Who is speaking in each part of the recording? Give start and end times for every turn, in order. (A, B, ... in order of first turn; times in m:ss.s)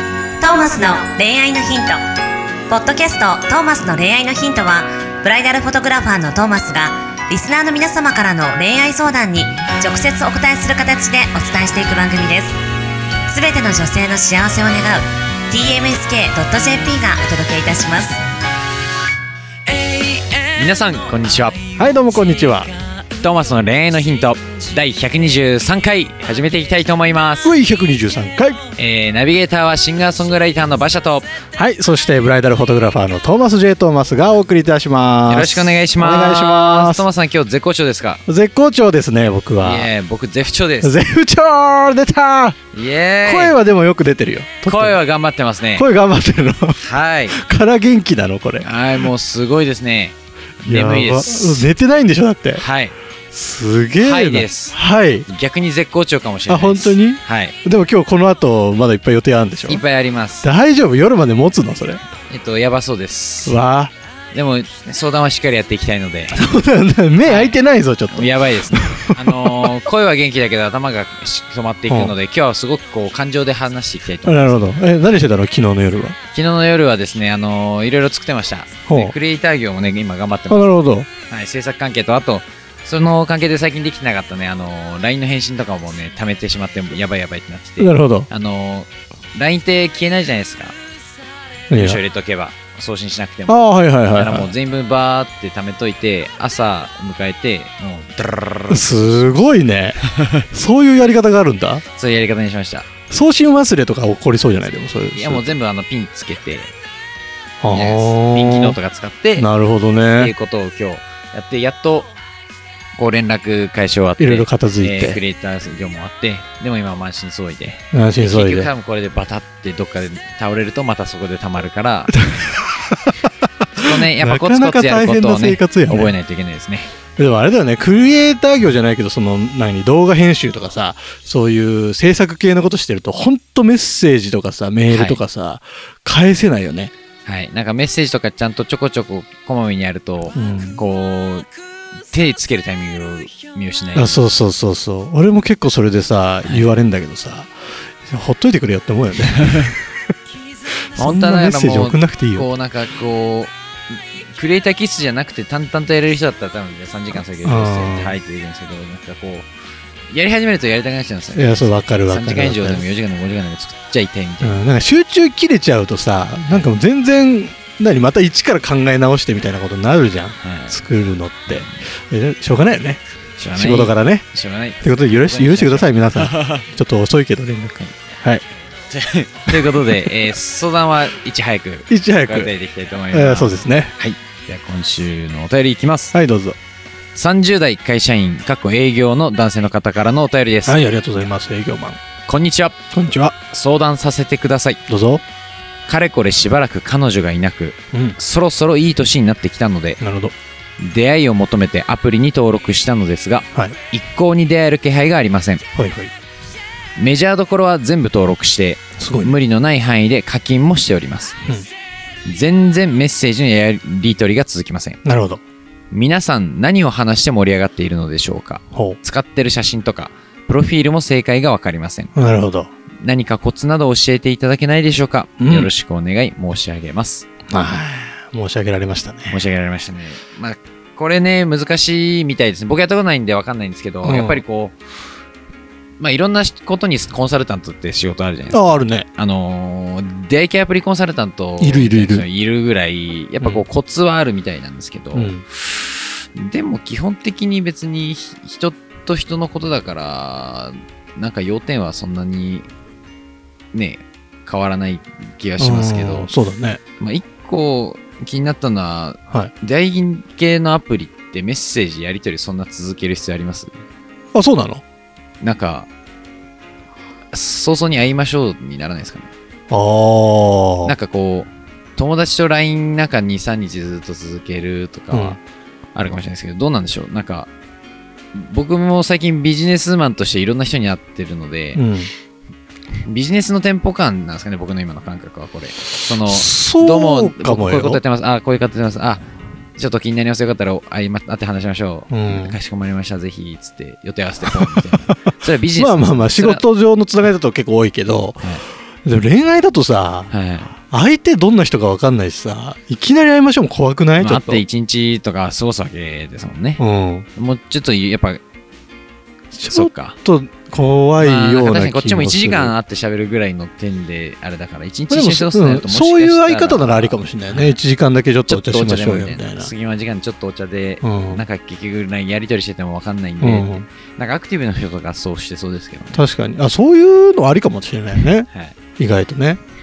0:00.4-0:02.0 A
0:02.7-0:12.6 A
0:13.3-0:18.2 A
0:19.7-0:21.6 B
0:21.8-0:22.7 C
0:23.2-0:27.5 B
0:27.4-0:28.6 C
0:28.8-0:31.3 B
0:31.6-0:37.1 C
0:35.3-0:38.2 B
0:38.3-0:39.9 C
0:39.6-0:41.0 B
0:40.8-0:42.6 C
0:42.7-0:43.6 B
0:43.2-0:45.0 C
0:44.6-0:45.9 B
0:45.7-0:48.7 C
0:46.8-0:47.4 B
0:48.6-0:51.7 B
0:50.6-0:52.6 C
0:52.6-0:53.0 B
0:53.3-0:55.3 C
0:54.0-0:57.6 B
0:56.5-0:59.8 C
0:59.7-1:00.5 B
1:00.4-1:02.0 C
1:02.3-1:03.6 B
1:03.4-1:03.9 C
1:04.3-1:06.4 B
1:06.3-1:09.7 C
1:07.2-1:07.6 B
1:08.1-1:14.7 B
1:11.9-1:12.2 C
1:14.2-1:16.2 C
1:16.3-1:30.8 B
1:18.9-1:19.1 C
1:20.5-1:21.1 C
1:27.8-1:28.3 C
1:31.7-1:32.0 C
1:31.7-1:38.8 B
1:33.5-1:34.5 C
1:38.7-1:41.8 C
1:40.1-1:40.4 B
1:41.9-1:42.9 B
1:43.1-1:45.5 C
1:45.1-1:46.7 B
1:47.6-1:48.8 C
1:47.7-1:49.5 B
1:49.4-1:50.3 C
1:50.1-1:52.1 B
1:53.0-2:02.2 B
1:54.2-1:55.2 C
1:57.9-1:58.7 C
2:02.1-2:06.1 C
2:03.7-2:06.9 B
2:07.2-2:16.9 C
2:14.9-2:15.2 B
2:17.2-2:21.5 B
2:20.4-2:20.8 C
2:22.1-2:24.2 B
2:23.9-2:27.5 C
2:26.4-2:26.7 B
2:28.1-2:29.9 C
2:29.4-2:29.7 B
2:30.9-2:32.5 C
2:31.0-2:33.5 B
2:34.3-2:39.5 B
2:37.4-2:38.2 C
2:40.1-2:44.6 B
2:41.3-2:42.9 C
2:44.4-2:53.0 C
2:50.4-2:50.8 B
2:51.5-2:51.8 B
2:53.4-2:56.7 B
2:53.5-2:54.3 C
2:54.8-2:58.4 C
2:58.9-3:06.2 B
3:01.9-3:02.5 C
3:03.1-3:03.9 C
3:06.1-3:06.6 C
3:07.2-3:10.8 B
3:10.7-3:12.0 C
3:12.3-3:12.8 B
3:12.9-3:13.4 C
3:13.5-3:14.8 B
3:14.9-3:15.2 C
3:15.9-3:20.0 B
3:20.0-3:20.3 C
3:20.8-3:25.6 B
3:25.8-3:26.1 C
3:27.0-3:31.4 B
3:29.0-3:29.4 C
3:32.3-3:35.0 B
3:35.0-3:35.4 C
3:35.9-3:42.2 B
3:38.7-3:39.0 C
3:42.2-3:42.7 C
3:43.0-3:47.3 B
3:45.4-3:45.7 C
3:47.5-3:49.4 C
3:49.3-3:54.8 B
3:54.0-3:54.4 C
3:56.0-3:58.6 B
3:58.5-3:59.1 C
3:59.2-4:12.7 B
4:01.6-4:02.3 C
4:05.1-4:05.4 C
4:13.7-4:16.3 B
4:15.6-4:16.8 C
4:17.0-4:23.8 B
4:24.3-4:24.8 C
4:25.4-4:25.9 B
4:27.3-4:29.3 B
4:29.7-4:31.0 C
4:30.8-4:35.4 B
4:35.1-4:35.4 C
4:35.9-4:37.5 B
4:38.3-4:41.9 B
4:41.8-4:42.1 C
4:43.0-4:56.6 B
4:46.2-4:48.0 C
4:52.1-4:52.6 C
4:54.4-4:55.2 C
4:55.8-4:58.5 C
4:59.0-5:04.6 C
5:00.3-5:00.8 B
5:04.2-5:06.8 B
5:06.8-5:07.3 C
5:07.4-5:08.4 B
5:09.5-5:12.7 C
5:09.7-5:10.2 B
5:11.2-5:17.8 B
5:15.1-5:19.7 C
5:18.5-5:26.2 B
5:21.0-5:21.4 C
5:23.4-5:23.9 C
5:26.1-5:29.6 C
5:28.5-5:28.8 B